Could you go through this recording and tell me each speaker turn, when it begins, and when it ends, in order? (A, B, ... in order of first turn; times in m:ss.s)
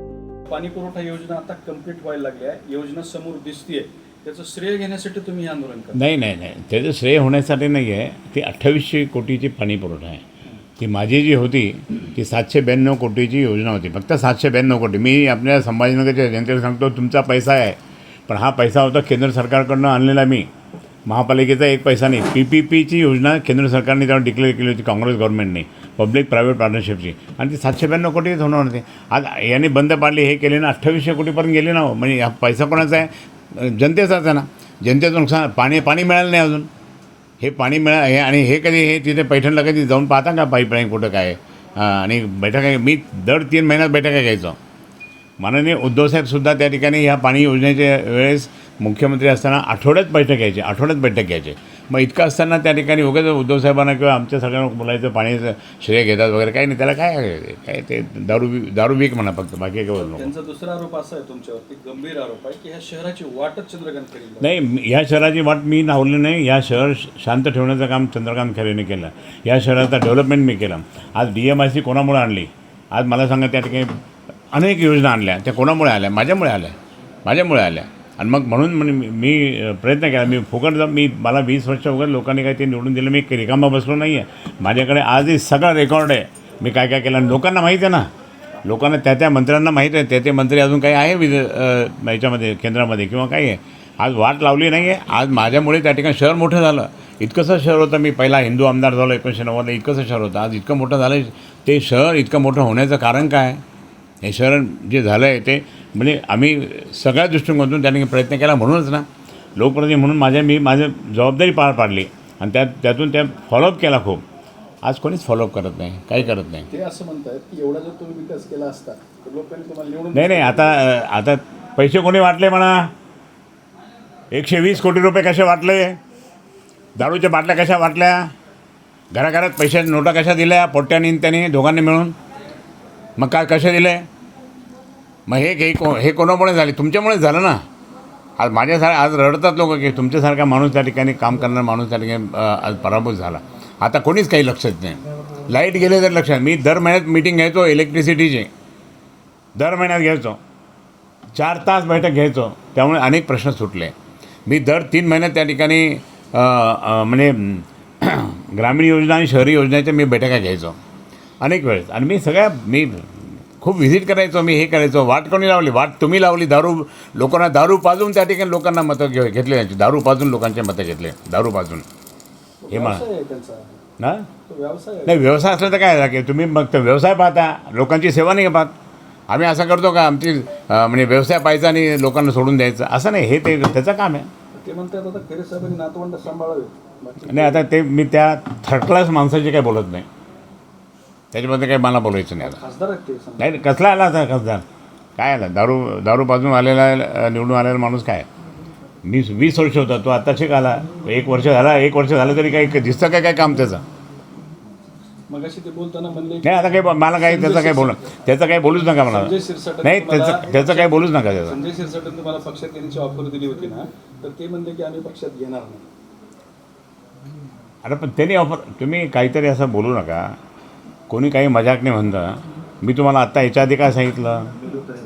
0:00.5-0:06.0 A
0:05.9-0:10.2 B
0:10.8-0:17.8 B
0:18.3-0:20.5 B
0:21.1-0:36.7 B
0:37.4-0:44.6 B
0:45.4-1:00.3 B
1:00.0-1:04.5 A
1:04.4-1:13.9 B
1:14.5-1:16.8 B
1:17.3-1:28.1 B
1:28.6-1:43.6 B
1:44.2-1:49.1 B
1:49.6-1:54.2 B
1:54.8-1:56.7 B
1:56.3-2:00.7 A
2:00.1-2:02.9 B
2:04.3-2:06.0 B
2:07.0-2:08.3 B
2:09.1-2:12.2 B
2:13.2-2:14.1 B
2:15.3-2:17.6 B
2:18.4-2:28.5 B
2:29.6-2:30.4 B
2:31.4-2:33.9 B
2:34.5-2:40.8 B
2:41.4-2:51.8 B
2:52.6-2:53.8 A
2:52.7-2:53.0 B
2:54.0-2:54.3 B
2:54.4-2:55.2 A
2:55.1-2:58.7 B
2:59.3-3:04.3 B
3:04.5-3:07.6 A
3:07.3-3:10.1 B
3:11.3-3:12.6 B
3:12.5-3:13.5 A
3:13.4-3:14.6 B
3:15.2-3:18.3 B
3:19.0-3:23.8 B
3:25.3-3:28.0 A
3:26.4-3:31.6 B
3:29.1-3:35.9 A
3:37.8-3:40.3 B
3:41.1-3:44.5 B